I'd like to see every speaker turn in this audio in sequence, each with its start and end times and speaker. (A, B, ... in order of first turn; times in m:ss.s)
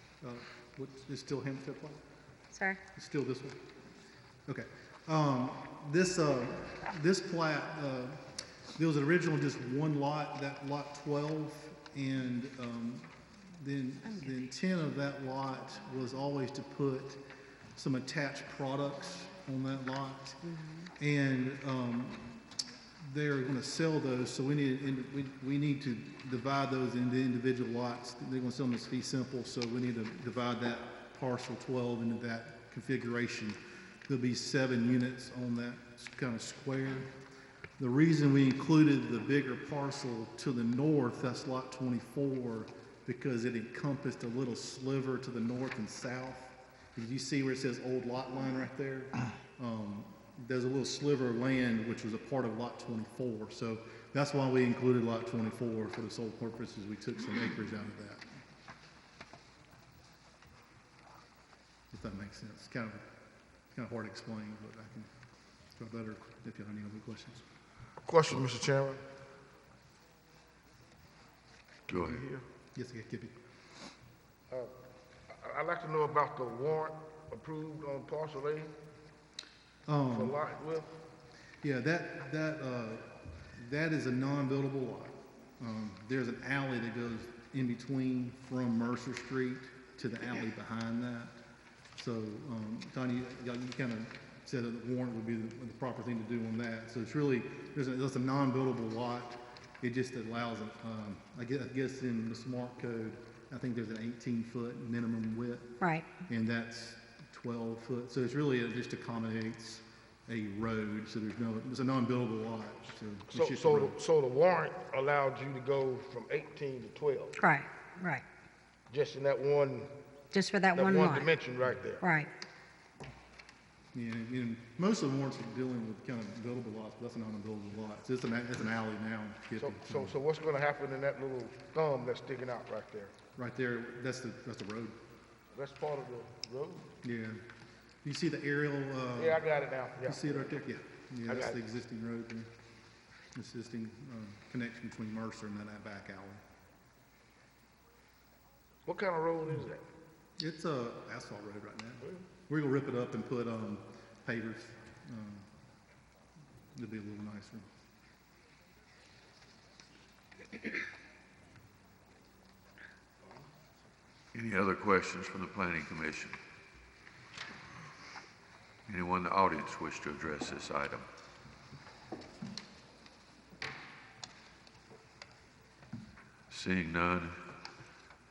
0:00.2-0:02.0 A
0:02.5-0:02.8 B
0:03.0-0:03.6 A
0:04.5-0:08.2 A
0:08.8-0:17.2 A
0:17.8-0:20.4 A
0:20.4-0:20.9 B
0:21.0-0:22.4 A
0:23.0-0:37.1 A
0:37.8-0:58.2 A
1:01.9-1:03.0 A
1:03.8-1:05.1 A
1:05.8-1:07.4 A
1:08.1-1:09.0 C
1:11.9-1:12.2 D
1:12.0-1:12.5 C
1:12.8-1:13.4 A
1:15.3-1:18.7 C
1:19.9-1:20.4 A
1:20.1-1:20.9 C
1:21.6-1:31.4 A
1:32.0-1:54.0 A
1:45.8-1:46.1 B
1:53.3-1:57.4 C
1:57.4-1:58.2 B
1:58.9-1:59.9 C
2:00.3-2:01.3 B
2:00.7-2:02.0 C
2:02.0-2:02.3 B
2:03.9-2:10.1 A
2:09.6-2:13.2 C
2:13.4-2:15.0 A
2:15.5-2:16.9 C
2:17.0-2:17.4 A
2:18.0-2:19.4 A
2:19.2-2:20.5 C
2:20.0-2:22.5 A
2:21.3-2:21.6 C
2:23.3-2:26.4 A
2:28.9-2:29.8 C
2:30.4-2:35.5 A
2:36.8-2:37.7 A
2:44.3-2:46.4 D
2:48.9-2:51.1 D
2:56.5-2:57.4 D